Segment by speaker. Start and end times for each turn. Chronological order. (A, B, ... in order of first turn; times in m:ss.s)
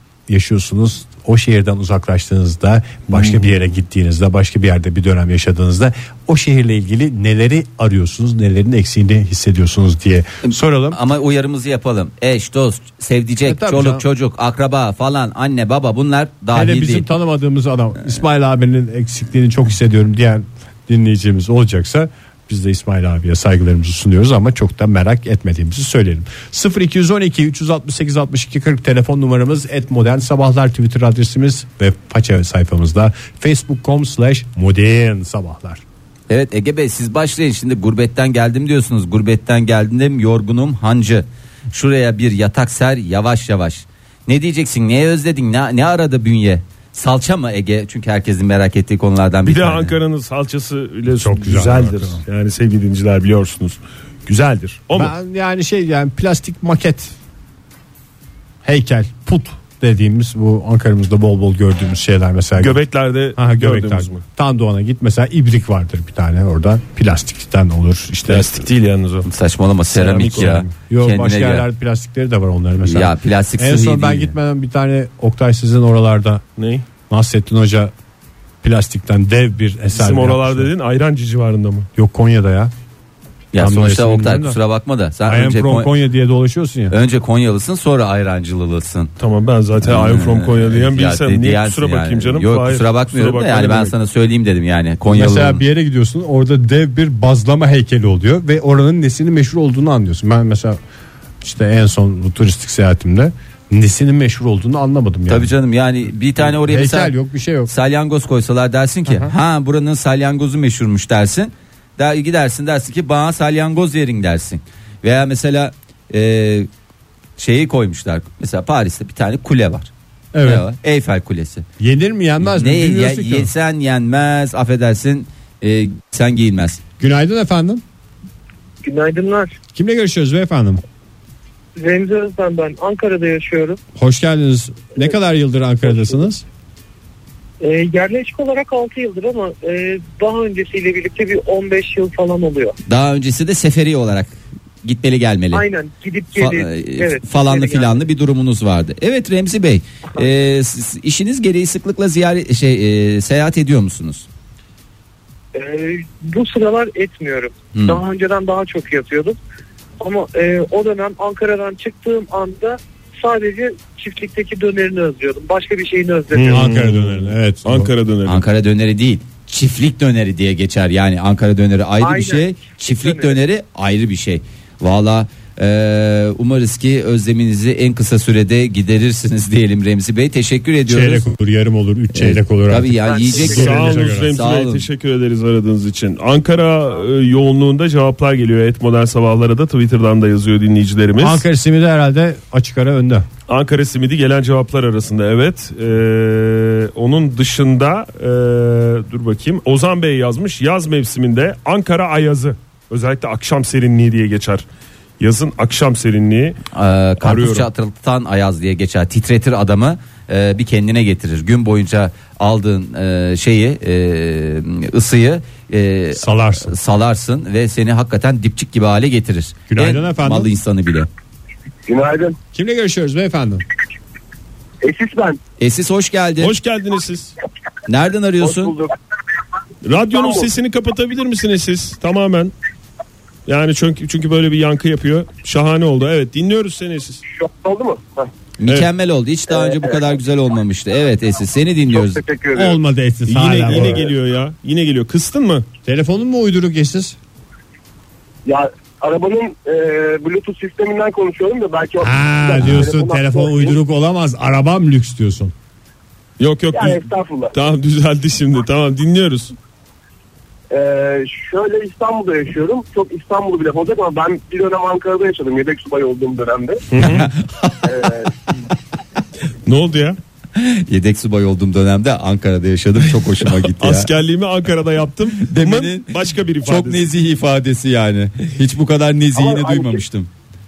0:00.3-0:11.0 A
0:10.4-0:17.1 B
0:13.5-0:14.0 A
0:16.5-0:35.8 A
0:36.3-0:49.9 B
0:49.4-0:55.1 C
0:51.2-0:52.2 A
0:54.9-0:57.1 A
0:58.6-1:02.8 A
1:02.6-1:04.2 C
1:03.4-1:08.6 A
1:08.3-1:09.3 C
1:09.2-1:11.6 B
1:09.9-1:10.7 C
1:10.9-1:16.4 A
1:12.8-1:14.3 B
1:16.6-1:16.8 C
1:17.1-1:17.9 A
1:18.6-1:20.7 A
1:19.9-1:21.9 C
1:22.0-1:22.7 A
1:23.5-1:25.9 B
1:23.6-1:24.6 A
1:25.2-1:26.9 A
1:26.9-1:29.1 B
1:29.2-1:33.9 C
1:29.8-1:35.6 B
1:35.1-1:40.8 A
1:41.4-1:45.5 A
1:45.3-1:47.1 B
1:46.4-1:47.7 A
1:47.7-1:56.7 B
1:49.1-1:49.3 A
1:57.4-1:59.9 B
2:00.3-2:00.6 A
2:00.4-2:01.6 B
2:01.8-2:03.5 A
2:02.4-2:06.8 B
2:07.0-2:07.8 A
2:08.8-2:09.6 D
2:09.7-2:10.8 A
2:11.8-2:13.8 D
2:14.0-2:16.4 A
2:15.9-2:16.2 D
2:17.6-2:22.8 D
2:22.8-2:25.6 B
2:25.5-2:28.0 D
2:26.3-2:34.2 B
2:35.5-2:39.4 D
2:37.7-2:38.0 B
2:40.0-2:46.6 D
2:46.3-2:48.4 C
2:46.5-2:47.9 A
2:48.2-3:01.2 B
2:52.0-2:53.4 D
3:00.9-3:04.3 A
3:02.1-3:04.9 B
3:03.0-3:03.7 D
3:03.4-3:11.4 C
3:11.2-3:13.3 A
3:13.5-3:24.6 C
3:25.2-3:26.6 C
3:26.7-3:41.1 B
3:27.2-3:27.7 C
3:36.2-3:36.7 A
3:39.7-3:40.5 A
3:41.9-3:42.4 E
3:42.5-3:43.6 A
3:44.8-3:45.4 E
3:45.6-3:46.5 B
3:46.4-3:47.3 C
3:47.9-3:48.7 B
3:48.4-3:48.9 E
3:49.8-3:52.5 C
3:49.9-3:50.5 E
3:53.5-3:57.2 C
3:57.3-3:58.3 E
3:58.6-4:02.2 B
3:59.5-3:59.8 E
4:01.9-4:02.8 E
4:02.5-4:04.0 A
4:03.3-4:05.6 C
4:03.7-4:04.0 E
4:05.8-4:07.2 A
4:08.4-4:13.8 E
4:12.0-4:15.5 A
4:16.4-4:19.5 C
4:16.7-4:17.5 E
4:20.7-4:26.8 E
4:26.9-4:27.3 C
4:27.0-4:27.8 B
4:27.8-4:28.3 E
4:29.6-4:30.2 C
4:30.5-4:34.1 B
4:33.6-4:37.1 C
4:35.4-4:36.1 B
4:36.6-4:40.3 B
4:39.3-4:40.0 E